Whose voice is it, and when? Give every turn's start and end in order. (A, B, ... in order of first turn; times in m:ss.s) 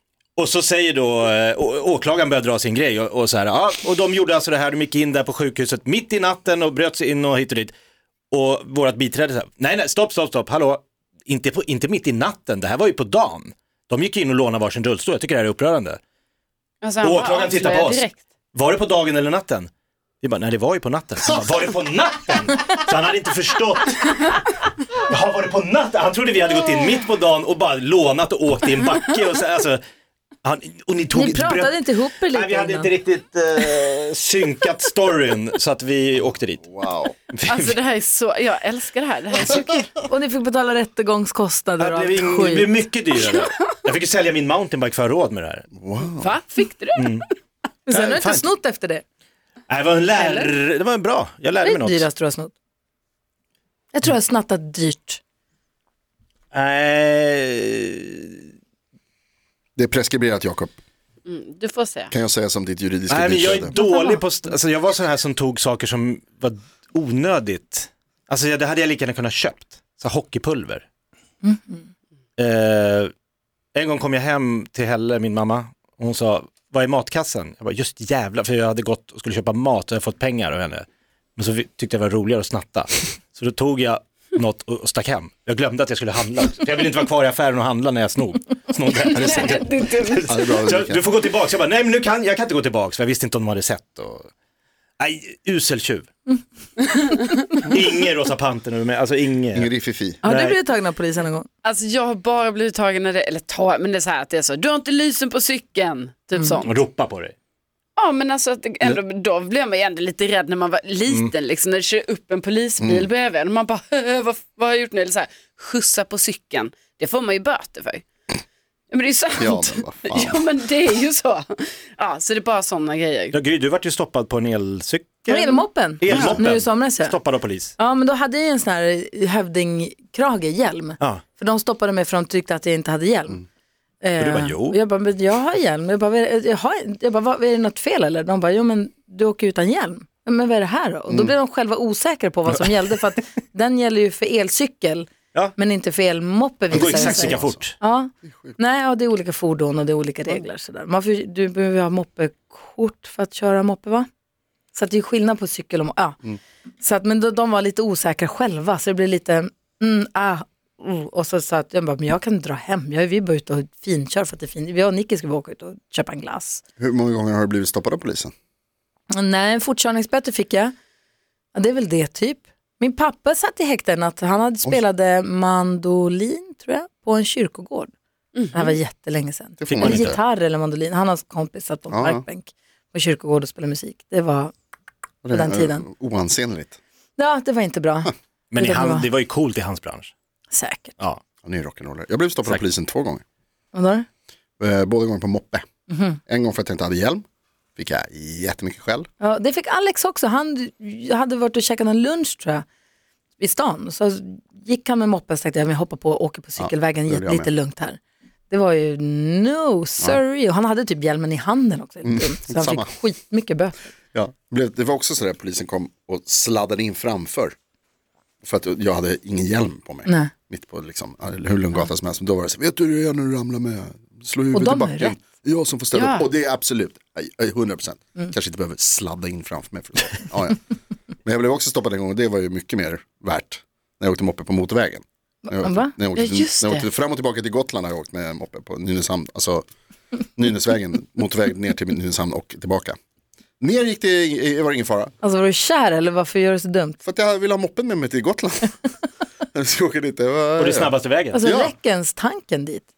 0:00.4-0:07.7 A
0:08.3-0:16.0 A
0:16.8-0:18.2 B
0:17.0-0:19.7 A
0:20.2-0:29.8 A
0:30.4-0:36.8 A
0:31.1-0:32.9 C
0:36.6-0:37.1 D
0:37.3-0:37.8 A
0:37.5-0:39.9 B
0:40.1-0:42.8 C
0:41.8-0:45.7 A
0:45.8-0:46.3 D
0:46.1-0:47.2 B
0:47.0-0:47.2 A
0:47.9-0:49.0 C
0:47.9-0:48.5 A
0:49.7-0:52.1 A
0:50.2-0:50.5 C
0:51.6-0:52.5 C
0:53.9-0:55.2 C
0:56.5-0:58.4 A
0:59.8-1:00.8 D
1:01.2-1:02.1 B
1:02.1-1:03.8 D
1:03.1-1:10.8 A
1:03.7-1:04.2 C
1:11.4-1:11.8 C
1:12.4-1:13.1 A
1:13.8-1:20.8 A
1:21.4-1:34.3 A
1:29.0-1:30.3 B
1:30.3-1:31.0 D
1:35.0-1:36.1 A
1:37.6-1:39.7 A
1:39.5-1:40.2 D
1:40.2-1:40.6 A
1:40.2-1:41.5 C
1:41.6-1:46.7 B
1:46.6-1:47.4 A
1:48.0-1:58.0 B
1:51.1-1:51.3 A
1:52.8-1:53.1 D
1:58.9-2:03.4 B
1:59.4-2:00.4 D
2:03.3-2:07.8 A
2:05.3-2:07.2 C
2:07.8-2:13.4 C
2:14.0-2:34.1 C
2:14.2-2:14.8 A
2:21.1-2:21.3 D
2:26.7-2:27.6 D
2:26.7-2:27.8 A
2:28.2-2:28.6 D
2:34.7-2:36.2 C
2:36.8-2:46.6 C
2:46.8-2:48.3 D
2:49.1-2:50.7 C
2:51.5-2:57.9 C
2:58.4-2:58.6 B
2:58.5-3:04.5 C
2:59.6-3:00.2 D
2:59.7-3:00.2 A
3:01.9-3:02.2 D
3:05.2-3:06.8 D
3:05.3-3:05.8 C
3:07.2-3:09.1 C
3:08.5-3:10.1 A
3:10.5-3:11.0 C
3:11.4-3:13.2 D
3:13.7-3:14.1 C
3:14.6-3:15.6 D
3:15.9-3:16.2 C
3:16.3-3:17.2 D
3:17.8-3:19.1 D
3:19.2-3:22.7 C
3:23.4-3:28.0 C
3:26.6-3:27.5 D
3:28.5-3:33.8 C
3:32.0-3:32.9 D
3:34.1-3:37.6 D
3:38.4-3:50.6 D
3:40.0-3:40.3 C
3:44.5-3:45.2 C
3:45.9-3:46.3 B
3:51.2-3:59.6 D
3:55.5-3:55.9 C
3:56.2-3:56.9 B
4:00.4-4:03.0 D
4:03.6-4:05.1 D
4:05.2-4:07.0 C
4:07.0-4:08.8 D
4:09.5-4:11.7 D
4:10.6-4:11.4 A
4:11.3-4:12.9 C